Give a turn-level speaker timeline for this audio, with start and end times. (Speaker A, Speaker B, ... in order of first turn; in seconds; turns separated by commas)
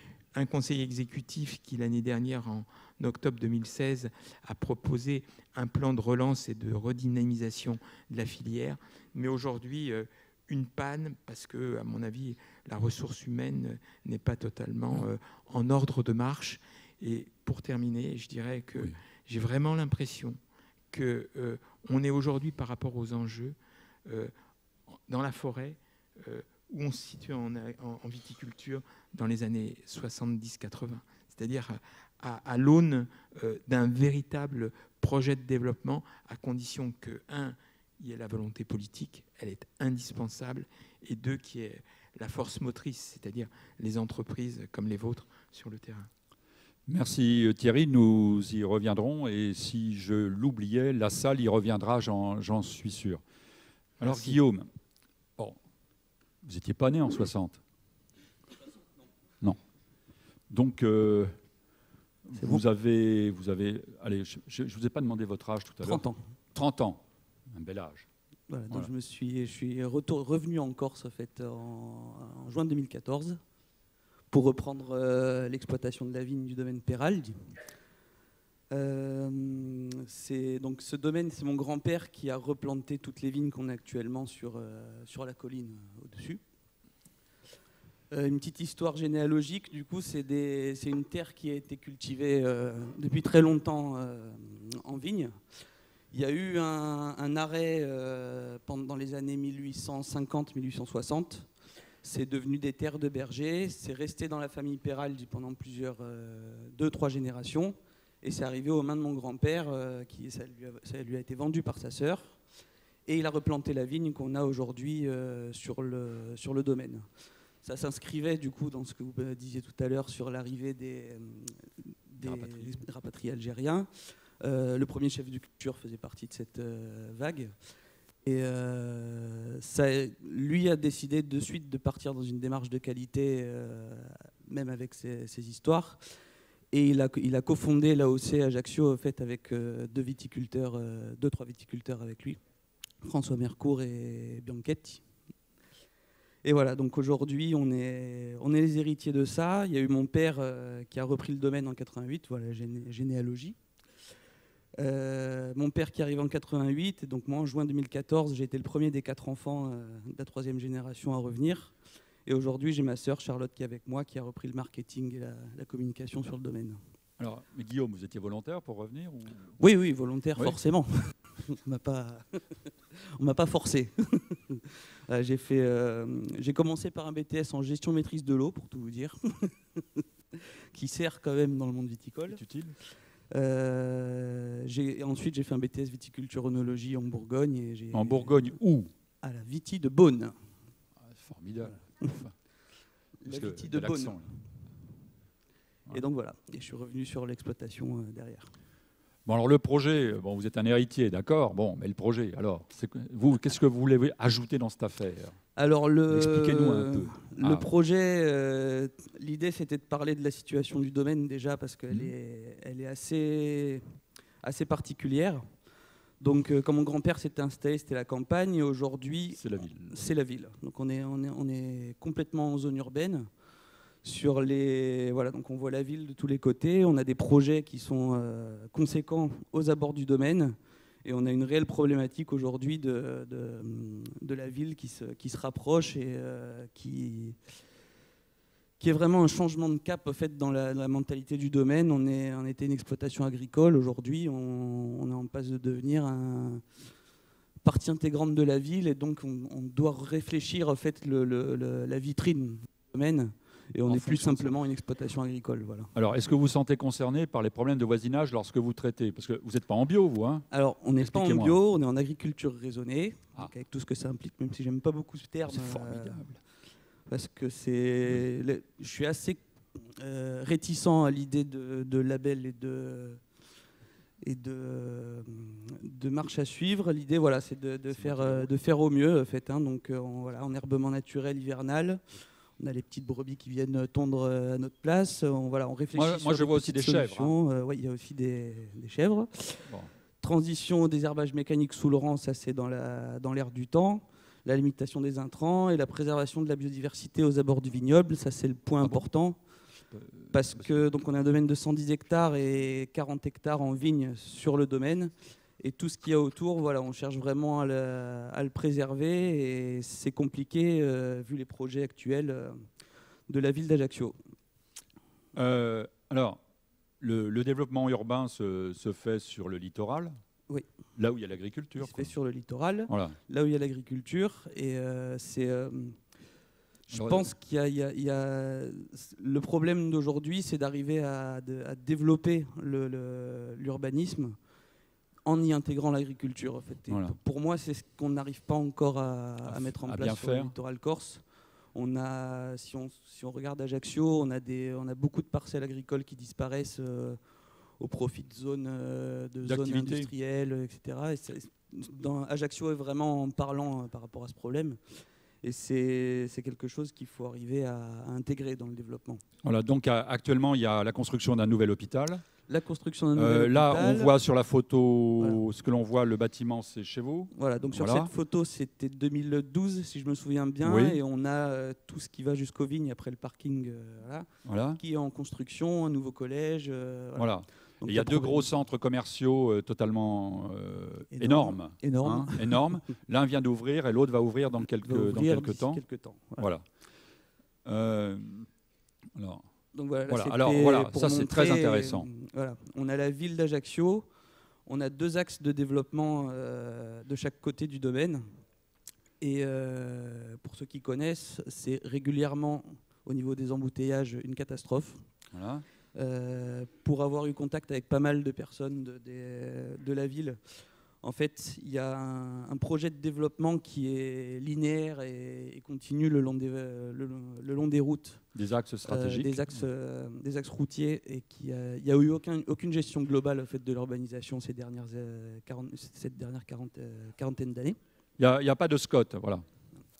Speaker A: 0.3-20.4, Speaker A: 20.9-24.3, Speaker A: 24.9-46.1, Speaker B: 46.9-53.2, Speaker B: 54.0-54.7, Speaker A: 54.0-54.3, Speaker B: 56.4-57.6, Speaker B: 60.5-61.4, Speaker B: 62.3-68.1, Speaker C: 62.4-62.6, Speaker C: 65.8-66.2, Speaker C: 68.5-73.4, Speaker C: 74.3-77.5, Speaker C: 78.7-86.4, Speaker C: 88.1-95.6, Speaker C: 96.1-112.4, Speaker C: 113.1-127.7, Speaker B: 122.2-122.8, Speaker C: 128.2-136.1, Speaker C: 136.7-142.4, Speaker C: 143.0-145.0, Speaker C: 146.4-153.6, Speaker C: 154.8-166.8, Speaker B: 167.2-169.5, Speaker C: 169.6-188.6, Speaker B: 182.3-182.8, Speaker B: 187.9-188.9, Speaker C: 189.2-190.5, Speaker B: 191.1-192.4, Speaker C: 193.2-194.4, Speaker B: 193.3-194.3, Speaker C: 195.9-198.5, Speaker B: 199.3-205.4, Speaker C: 205.6-213.8, Speaker B: 206.1-207.7, Speaker C: 214.4-215.7, Speaker C: 216.2-223.3, Speaker B: 219.4-220.0, Speaker C: 224.0-237.5, Speaker C: 238.8-246.8, Speaker C: 247.6-255.9, Speaker B: 253.9-254.6, Speaker B: 255.9-261.6, Speaker C: 260.5-266.4, Speaker B: 265.5-266.4, Speaker C: 267.1-273.3, Speaker C: 274.2-299.5, Speaker B: 277.9-278.5, Speaker B: 285.9-287.4, Speaker B: 289.6-289.9, Speaker B: 299.9-300.9, Speaker C: 300.3-312.7, Speaker C: 313.3-314.2, Speaker B: 315.4-316.4, Speaker B: 317.0-320.2, Speaker B: 321.0-322.1, Speaker C: 321.8-326.0, Speaker B: 322.9-323.2, Speaker C: 326.9-334.4, Speaker B: 326.9-327.3, Speaker C: 335.2-359.2, Speaker B: 336.9-337.2, Speaker B: 339.4-340.5, Speaker B: 349.4-350.1, Speaker B: 359.4-362.2, Speaker C: 362.5-364.1, Speaker B: 363.2-368.1, Speaker C: 367.3-378.5, Speaker B: 370.6-371.0, Speaker B: 374.5-374.8, Speaker B: 377.1-385.8, Speaker C: 381.1-382.8, Speaker C: 384.8-386.5, Speaker B: 386.4-386.6, Speaker B: 387.7-388.5, Speaker B: 389.2-389.4, Speaker C: 389.7-394.1, Speaker B: 390.1-392.1, Speaker C: 394.6-398.4, Speaker C: 399.2-405.1, Speaker B: 405.3-405.6, Speaker C: 405.9-427.8, Speaker B: 418.4-419.6, Speaker B: 428.2-429.4